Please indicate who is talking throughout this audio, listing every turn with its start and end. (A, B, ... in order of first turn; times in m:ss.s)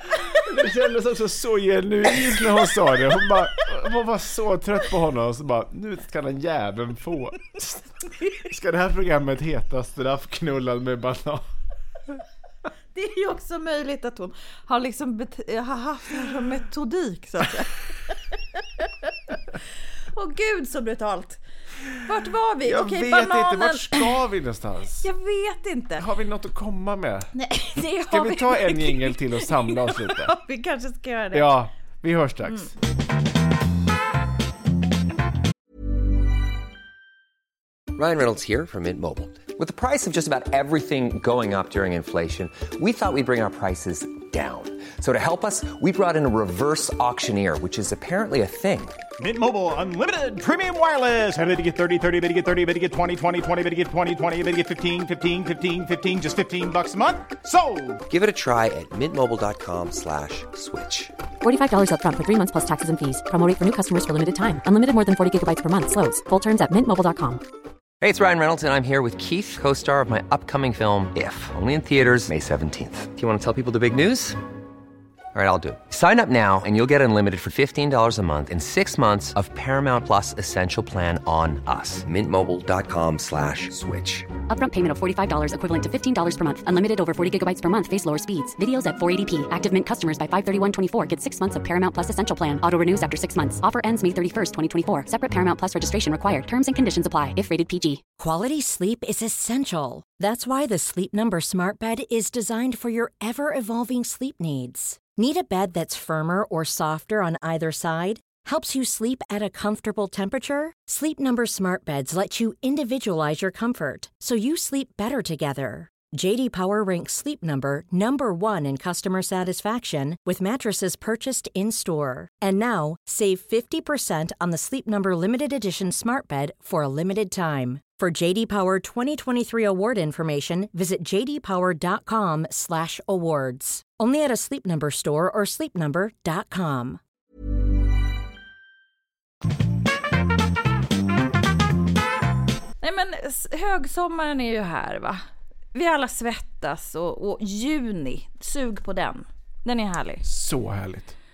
0:00.3-0:11.4 A
0:12.9-0:17.8 B
0:20.1-0:21.4 B
0:22.0-0:24.1 B
0:22.6-0:25.0 A
0:24.9-0:26.0 B
0:26.0-0:27.3 A
0:27.3-0:31.5 B
0:28.0-0:30.3 A
0:31.3-0:32.7 A
0:37.9-0:49.0 C
0:49.2-0:58.0 D
0:58.1-1:01.1 C
1:01.4-1:07.4 E
1:08.0-1:14.4 C
1:15.3-1:24.3 C
1:24.5-1:38.0 E
1:38.2-2:17.0 F
2:22.8-2:25.2 B
2:25.7-2:30.2 B
2:30.2-2:31.1 A